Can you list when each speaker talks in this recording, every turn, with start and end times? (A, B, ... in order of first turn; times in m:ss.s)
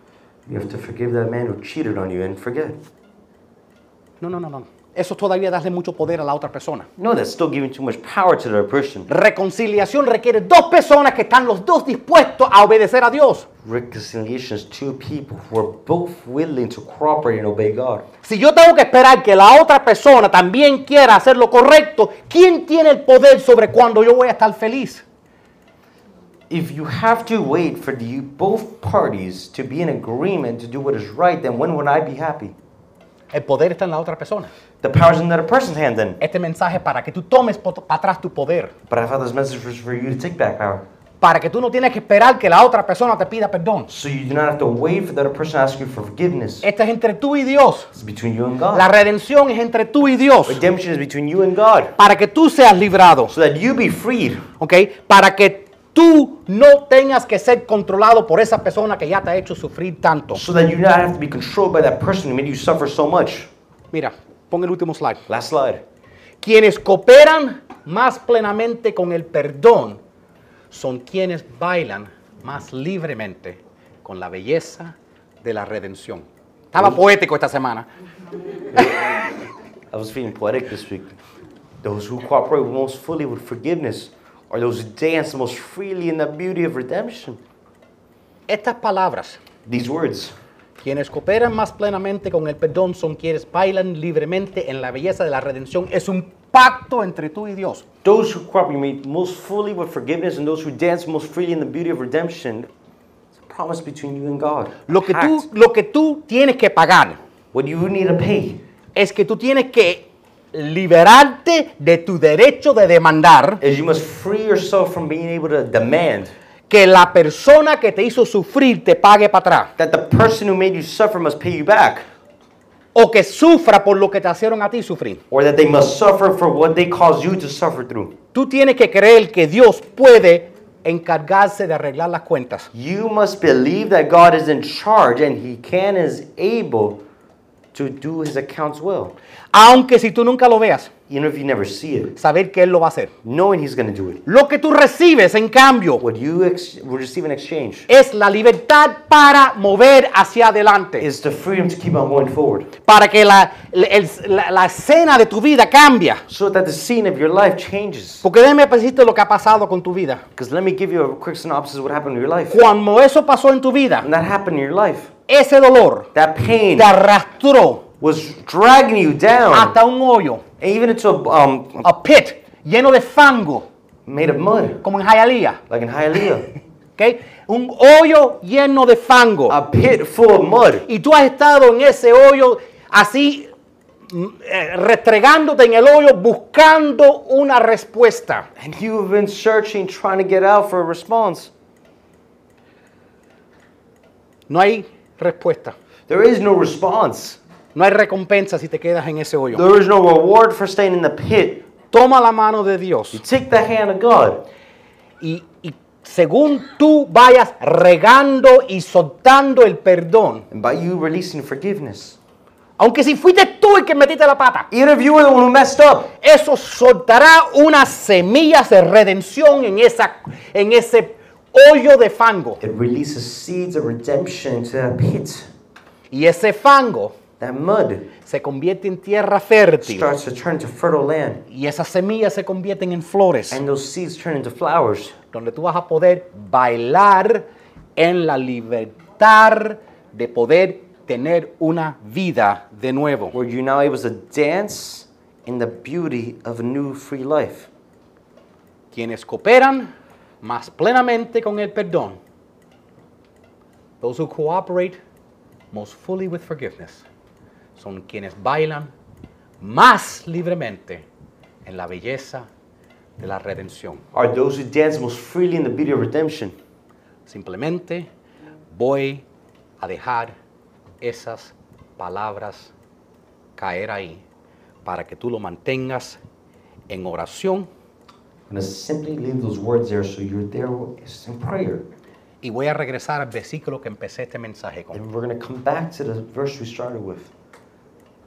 0:00.5-0:02.8 A
0:04.2-0:06.9 B
0:07.0-0:09.1 A
0:09.1-0:13.5 B
0:13.6-0:18.1 A
0:18.2-0:25.0 B
0:26.5-0:32.6 A
0:33.3-0:34.5 B
0:34.8-0:36.2 A
0:36.2-0:38.7 B
0:38.9-0:40.8 A
0:41.2-0:43.9 B
0:43.9-0:46.7 A
0:46.6-0:47.9 B
0:48.0-0:48.9 A
0:48.7-0:50.6 B
0:50.5-0:52.0 A
0:52.0-0:53.3 B
0:53.3-0:54.5 A
0:54.6-1:00.4 B
1:00.3-1:03.5 A
1:03.9-1:05.2 B
1:05.3-1:05.8 A
1:06.4-1:10.0 B
1:10.7-1:17.9 B
1:19.9-1:21.2 A
1:21.8-1:27.4 A
1:28.5-1:29.4 B
1:29.6-1:30.4 A
1:30.8-1:37.8 B
1:38.0-1:42.7 A
1:43.4-1:45.4 A
1:44.9-1:47.2 B
1:47.5-1:48.6 A
1:49.0-1:53.6 B
1:53.6-1:56.3 A
1:56.7-1:59.7 B
1:59.8-2:02.1 A
2:03.0-2:05.2 B
2:05.3-2:08.2 A
2:08.3-2:12.7 B
2:12.7-2:17.0 A
2:17.7-2:19.2 A
2:19.5-2:20.9 B
2:21.1-2:22.2 A
2:22.2-2:23.1 B
2:23.2-2:24.2 A
2:24.3-2:26.0 B
2:26.0-2:27.9 A
2:27.9-2:31.1 B
2:31.0-2:32.7 A
2:32.8-2:36.2 B
2:36.3-2:38.3 A
2:38.2-2:40.2 B
2:40.4-2:42.6 A
2:42.5-2:44.1 B
2:44.0-2:45.1 A
2:45.3-2:46.1 B
2:46.1-2:46.9 A
2:46.8-2:47.9 B
2:48.0-2:49.8 A
2:49.5-2:50.4 B
2:50.6-2:51.9 A
2:51.8-2:53.7 B
2:54.1-2:54.8 A
2:54.8-2:55.6 B
2:55.7-2:56.5 A
2:57.0-2:59.6 B
2:59.5-3:00.9 A
3:00.9-3:03.5 B
3:04.1-3:08.5 B
3:08.6-3:11.5 A
3:14.5-3:15.8 B
3:16.1-3:17.4 A
3:17.8-3:19.6 B
3:19.5-3:21.7 A
3:21.9-3:23.2 B
3:23.1-3:24.4 A
3:25.2-3:30.5 B
3:30.5-3:32.2 A
3:32.8-3:34.7 B
3:34.7-3:36.1 A
3:36.2-3:42.6 B
3:42.6-3:45.5 A
3:46.1-3:47.2 B
3:47.4-3:48.1 A
3:48.2-3:50.1 B
3:49.8-3:51.4 A
3:51.5-3:53.6 B
3:53.5-3:55.2 A
3:55.3-3:57.4 B
3:58.0-4:03.4 B
4:03.3-4:07.7 A
4:08.9-4:09.9 B
4:10.4-4:12.2 B
4:14.0-4:15.0 B
4:15.7-4:17.0 B
4:17.8-4:18.9 B
4:19.6-4:21.0 B
4:21.6-4:22.5 B
4:23.2-4:24.0 B
4:24.1-4:26.6 A
4:27.3-4:28.1 B
4:28.7-4:29.2 B
4:29.8-4:30.3 B
4:31.0-4:32.7 B
4:33.6-4:34.2 B
4:34.8-4:36.2 B
4:36.9-4:37.7 B
4:38.5-4:41.9 A
4:42.4-4:45.0 B
4:44.9-4:47.3 A